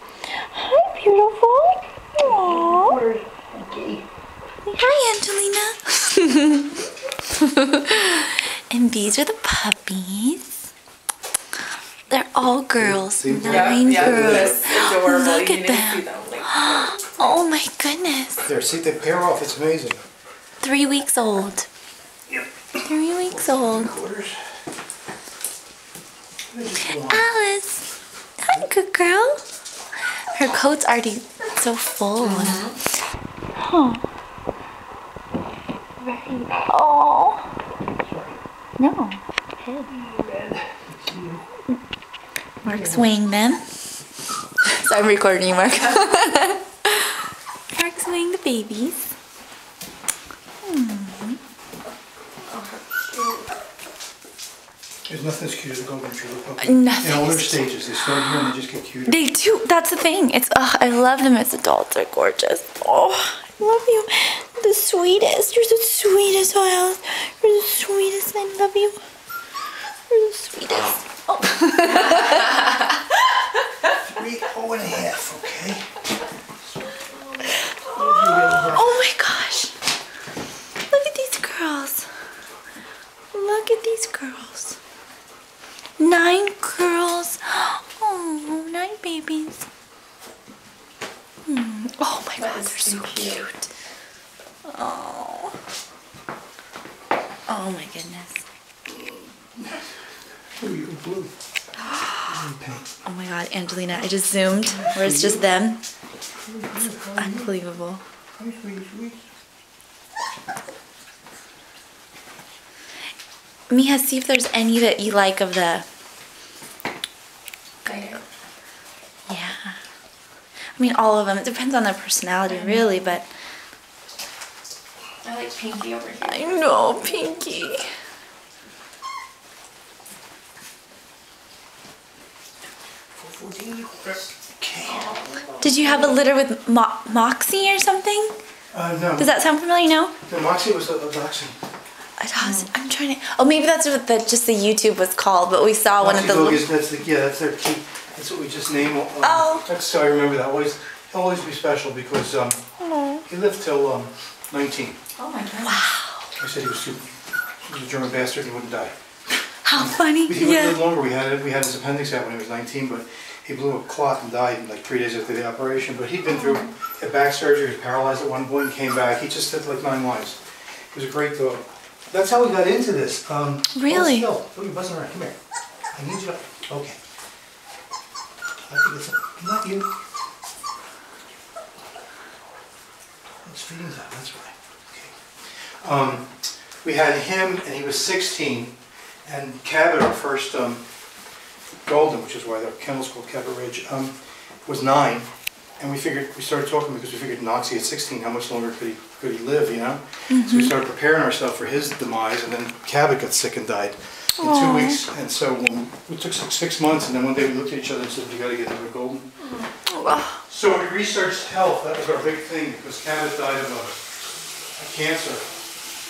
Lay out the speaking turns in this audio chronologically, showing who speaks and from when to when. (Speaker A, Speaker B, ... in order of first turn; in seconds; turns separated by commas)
Speaker A: 0.3-3.0, Speaker B: 2.2-4.0, Speaker A: 4.6-10.6, Speaker A: 12.1-18.5, Speaker B: 12.8-14.6, Speaker C: 13.4-17.2, Speaker B: 18.4-20.0, Speaker A: 20.6-21.7, Speaker A: 22.8-23.9, Speaker B: 23.3-24.4, Speaker B: 26.5-27.2, Speaker A: 26.9-27.9, Speaker A: 28.4-29.4, Speaker A: 30.3-32.8, Speaker C: 32.2-32.7, Speaker A: 33.6-34.0, Speaker A: 36.0-37.5, Speaker B: 38.0-38.4, Speaker A: 38.8-39.9, Speaker B: 39.9-41.4, Speaker B: 42.6-43.1, Speaker A: 42.6-43.7, Speaker A: 44.6-47.2, Speaker A: 47.7-49.1, Speaker A: 50.6-51.4, Speaker C: 52.5-53.5, Speaker B: 55.0-59.1, Speaker A: 56.6-58.5, Speaker A: 59.0-69.0, Speaker A: 70.1-73.0, Speaker B: 73.9-75.9, Speaker B: 76.8-78.9, Speaker A: 78.7-79.7, Speaker A: 80.9-82.1, Speaker A: 83.3-84.8, Speaker A: 86.0-89.7, Speaker A: 91.5-93.7, Speaker C: 92.4-93.5, Speaker A: 94.7-95.5, Speaker A: 97.5-98.4, Speaker B: 99.5-99.9, Speaker B: 100.6-101.3, Speaker A: 101.9-102.3, Speaker B: 102.3-102.9, Speaker A: 103.0-105.8, Speaker B: 104.6-105.5, Speaker B: 106.4-107.5, Speaker A: 107.2-108.0, Speaker B: 108.4-109.2, Speaker A: 113.7-115.8, Speaker C: 117.8-118.2, Speaker A: 119.3-119.8, Speaker A: 120.7-123.3, Speaker C: 122.5-122.8, Speaker C: 125.2-127.1, Speaker A: 126.2-127.8, Speaker B: 133.2-135.4, Speaker C: 134.8-136.1, Speaker A: 135.6-138.3, Speaker B: 138.7-139.3, Speaker A: 139.2-140.1, Speaker B: 140.2-141.6, Speaker A: 142.2-146.7, Speaker C: 142.4-142.7, Speaker B: 146.0-152.6, Speaker A: 149.2-149.7, Speaker A: 152.8-153.2, Speaker B: 153.2-155.0, Speaker C: 155.2-155.9, Speaker A: 155.6-156.3, Speaker B: 156.4-158.9, Speaker A: 159.6-160.8, Speaker B: 159.7-170.4, Speaker A: 166.2-166.7, Speaker B: 170.9-175.4, Speaker A: 173.7-174.3, Speaker B: 175.9-177.0, Speaker B: 178.7-179.9, Speaker B: 183.4-190.8, Speaker B: 191.8-195.3, Speaker B: 195.8-209.3, Speaker A: 200.3-200.8, Speaker A: 204.4-205.0, Speaker A: 209.9-210.4, Speaker B: 210.1-213.9, Speaker B: 214.8-215.5